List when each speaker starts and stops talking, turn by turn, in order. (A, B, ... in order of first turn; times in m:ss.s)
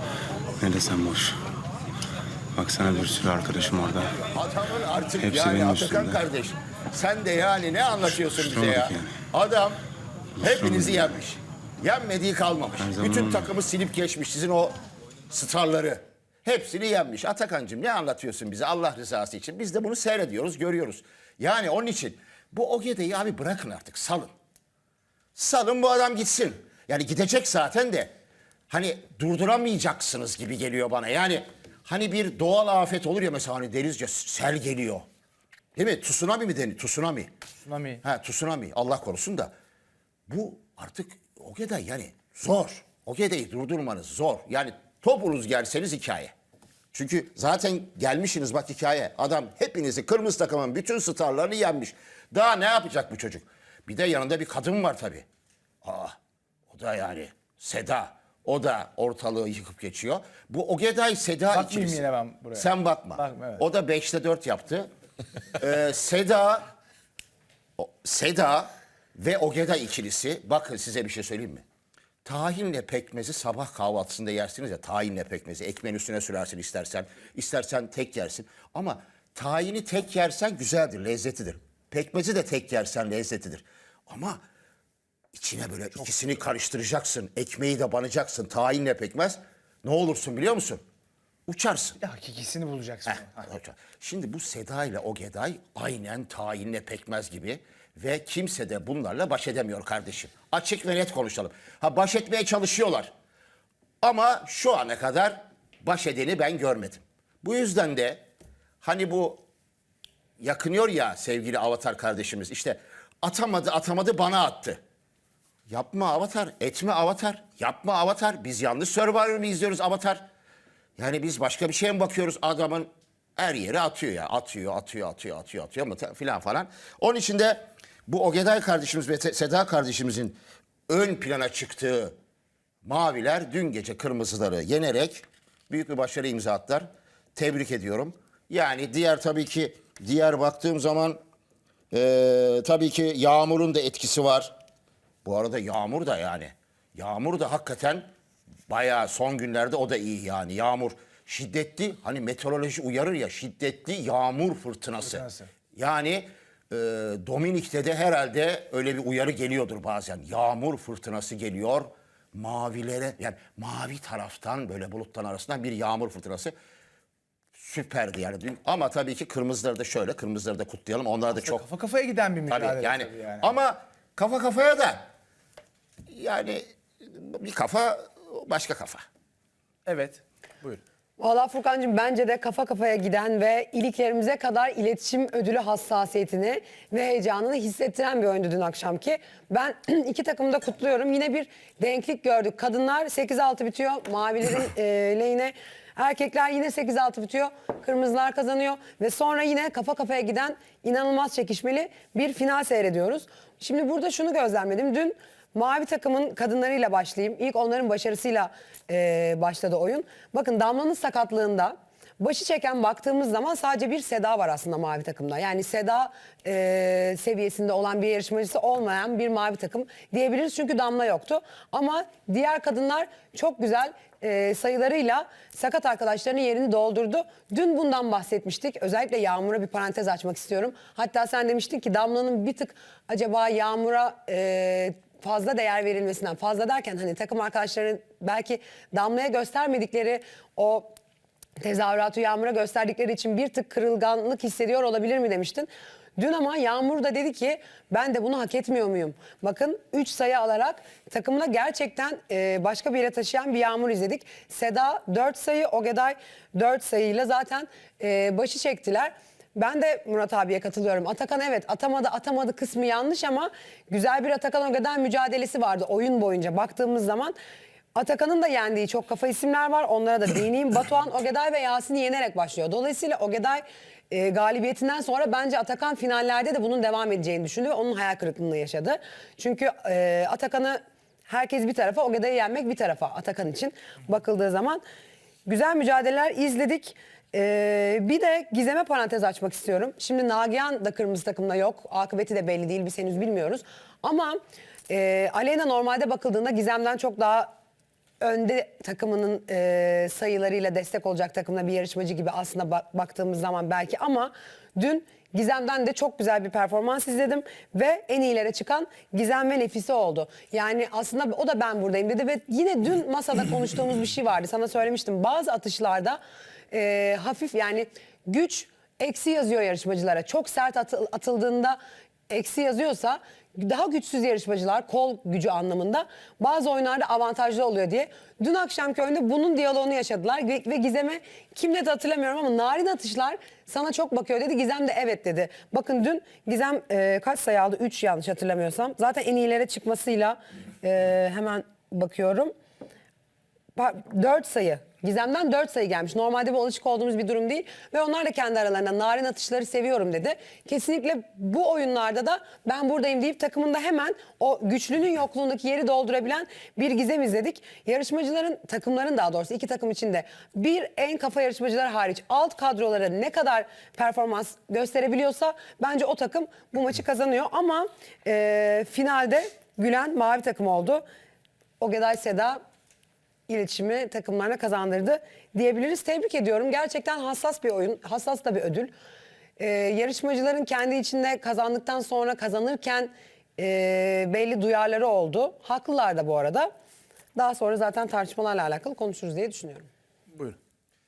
0:00.6-0:01.4 A
0:02.5-0:04.2 A
0:04.3-0:09.8 B
0:05.2-0:06.2 A
0:08.0-0:09.2 A
0:10.4-0:14.7 B
0:10.4-0:11.2 A
0:12.8-0:13.5 A
0:15.3-0:24.3 B
0:25.3-0:28.1 B
0:28.7-0:35.0 B
0:35.8-0:37.3 B
0:37.6-0:38.0 C
0:38.0-0:39.5 B
0:40.3-0:46.3 B
0:46.9-0:55.2 B
0:55.8-0:56.1 B
0:56.7-1:02.0 B
1:01.5-1:03.6 C
1:02.5-1:04.9 B
1:05.6-1:06.7 B
1:07.8-1:11.6 B
1:12.2-1:24.4 B
1:25.3-1:30.8 B
1:31.5-1:32.0 B
1:32.0-1:33.4 C
1:33.2-1:43.1 B
1:44.0-1:48.2 B
1:48.8-1:49.4 B
1:50.4-1:54.8 B
1:55.7-2:00.2 B
2:01.0-2:12.1 B
2:12.8-2:21.2 B
2:21.9-2:24.5 B
2:25.2-2:28.1 B
2:28.7-2:46.5 B
2:47.5-2:51.6 B
2:51.3-2:53.5 C
2:52.5-2:55.0 B
2:56.1-2:59.0 B
2:59.8-3:00.8 C
3:01.2-4:00.9 D
4:01.6-4:27.3 D
4:27.9-4:44.8 D
4:45.4-4:57.5 D
4:58.2-5:16.2 D
5:16.7-5:21.8 D
5:22.3-5:42.5 D
5:43.7-6:11.0 D
6:11.8-6:12.6 D
6:13.5-6:18.9 D
6:19.6-6:26.7 D
6:27.3-6:29.9 D